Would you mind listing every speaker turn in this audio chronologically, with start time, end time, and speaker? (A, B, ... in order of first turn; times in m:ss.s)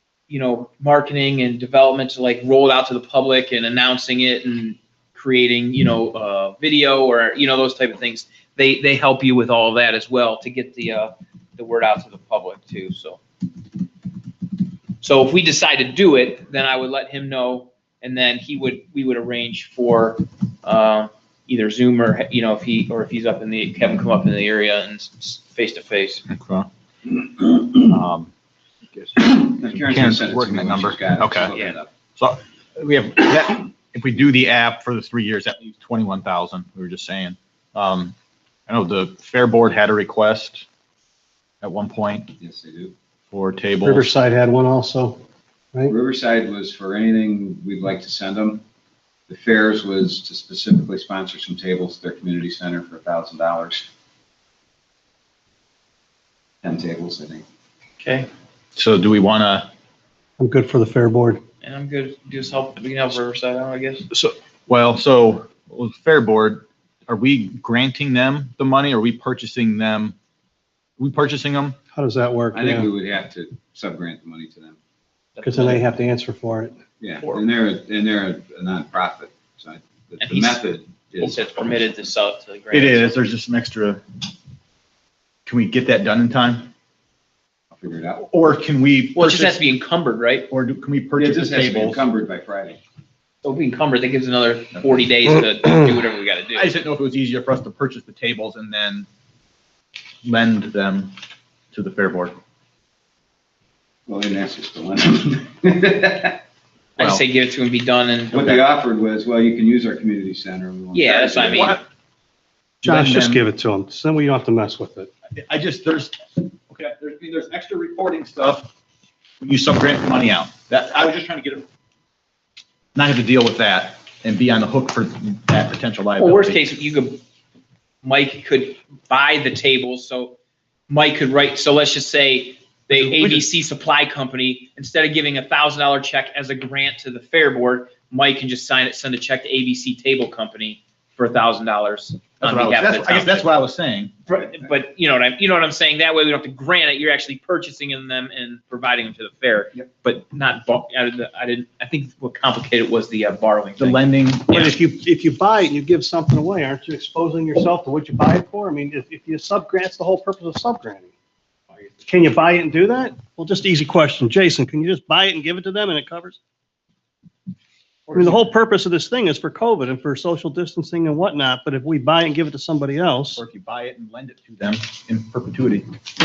0:00.3-0:13.2 A
0:15.0-0:26.2 A
0:26.3-0:26.7 B
0:27.8-0:28.3 B
0:29.2-0:31.9 C
0:29.8-0:31.6 B
0:32.2-0:38.2 B
0:38.7-0:40.6 B
0:41.6-0:42.3 B
0:42.4-0:42.9 C
0:43.3-0:44.1 B
0:43.8-0:45.2 D
0:45.9-0:48.6 C
0:49.3-0:53.9 C
0:56.6-0:57.4 C
0:58.0-0:58.3 A
0:58.8-0:59.7 B
1:00.4-1:01.4 D
1:01.6-1:04.1 A
1:04.1-1:10.2 B
1:11.0-1:11.8 B
1:11.9-1:12.9 D
1:12.5-1:14.8 C
1:15.4-1:15.9 A
1:15.4-1:16.8 D
1:17.0-1:21.8 C
1:20.2-1:20.6 A
1:21.2-1:23.1 A
1:22.7-1:24.0 B
1:25.5-1:26.7 B
1:27.7-1:28.3 C
1:28.2-1:29.6 B
1:29.2-1:30.5 A
1:30.5-1:32.0 B
1:31.2-1:32.8 C
1:33.4-1:36.7 A
1:36.5-1:39.1 B
1:40.2-1:41.1 B
1:41.7-1:42.4 B
1:44.1-1:46.4 C
1:47.0-1:48.6 A
1:48.3-1:51.8 C
1:50.9-1:51.8 A
1:51.4-1:51.8 B
1:52.8-1:53.4 B
1:52.8-1:55.1 D
1:55.4-1:58.7 B
1:59.4-2:01.6 B
2:03.0-2:06.6 B
2:06.2-2:07.2 A
2:08.0-2:10.4 A
2:10.9-2:23.5 A
2:12.9-2:13.5 B
2:22.4-2:24.1 B
2:24.3-2:34.7 A
2:24.4-2:24.7 C
2:33.8-2:34.8 B
2:34.6-2:41.1 D
2:42.0-2:46.4 D
2:48.1-2:53.4 D
2:48.1-2:48.4 B
2:53.4-2:55.9 B